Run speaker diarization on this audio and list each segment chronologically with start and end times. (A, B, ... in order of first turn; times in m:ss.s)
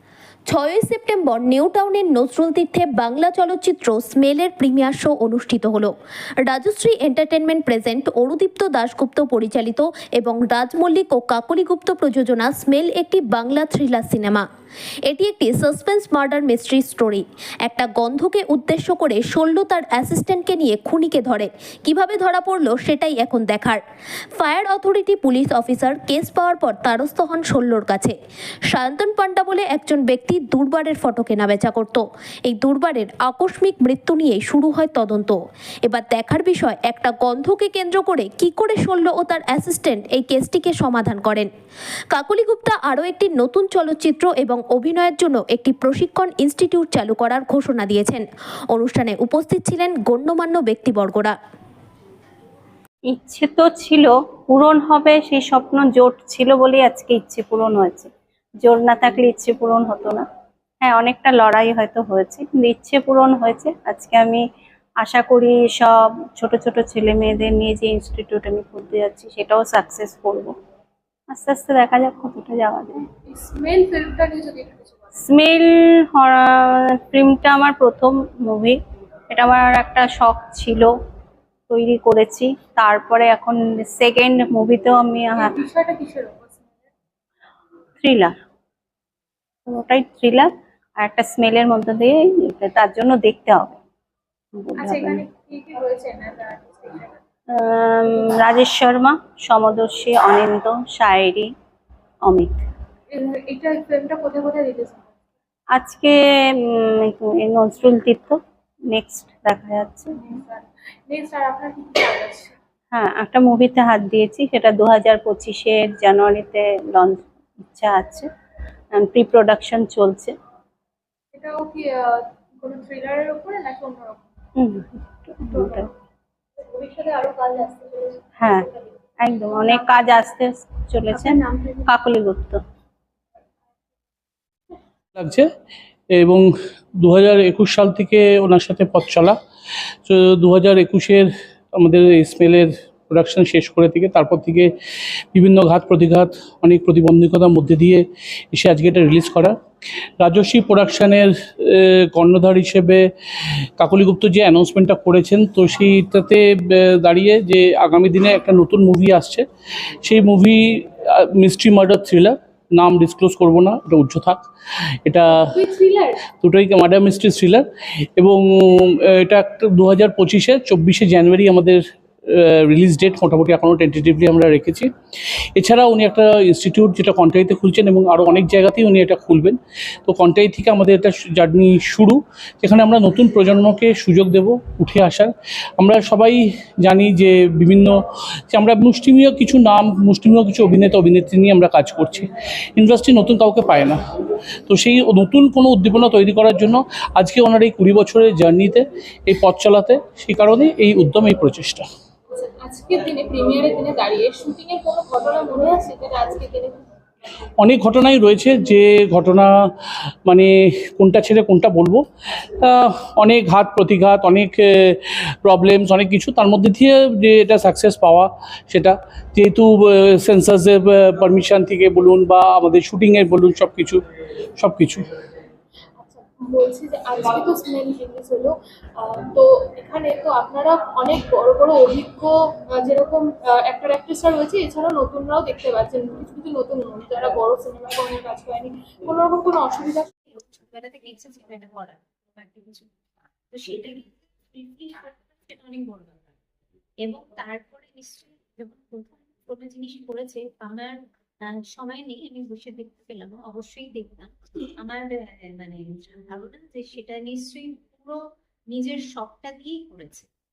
0:00.5-0:05.9 A
0:06.4-0:14.4 A
0:15.1-0:23.8 A
0:24.4-0:28.1 A
0:28.7-0:41.5 A
0:42.1-0:51.3 A
0:53.1-0:58.1 B
0:58.6-1:00.2 B
1:00.8-1:04.4 B
1:05.0-1:10.5 B
1:11.3-1:13.0 B
1:13.3-1:15.2 C
1:15.2-1:18.8 B
1:19.3-1:20.9 B
1:21.7-1:25.6 B
1:25.4-1:26.9 C
1:28.0-1:28.3 B
1:29.7-1:33.8 B
1:34.5-1:35.2 B
1:34.8-1:37.2 C
1:37.5-1:41.5 B
1:42.2-1:42.5 B
1:43.1-1:45.1 C
1:45.7-1:48.4 B
1:48.9-1:50.1 B
1:50.1-1:52.5 C
1:52.9-1:58.3 B
1:58.9-2:00.3 B
2:01.3-2:04.3 C
2:04.6-2:05.9 B
2:05.5-2:05.9 C
2:06.6-2:08.9 C
2:08.4-2:08.7 B
2:09.2-2:12.6 B
2:09.5-2:10.0 C
2:11.1-2:11.9 C
2:15.2-2:15.5 D
2:16.1-2:19.4 D
2:20.0-2:24.7 D
2:25.3-2:29.6 D
2:30.2-2:39.4 D
2:40.0-2:44.4 D
2:45.0-2:45.5 D
2:45.4-2:46.2 C
2:46.4-2:54.9 D
2:55.6-3:14.0 D
3:14.7-3:21.8 D
3:22.3-3:26.8 C
3:27.6-3:29.5 D
3:30.2-3:32.0 D
3:32.6-3:44.0 D
3:44.6-3:45.0 D
3:46.0-4:00.1 C
4:00.3-4:02.9 E
4:03.5-4:06.4 E
4:07.0-4:20.3 E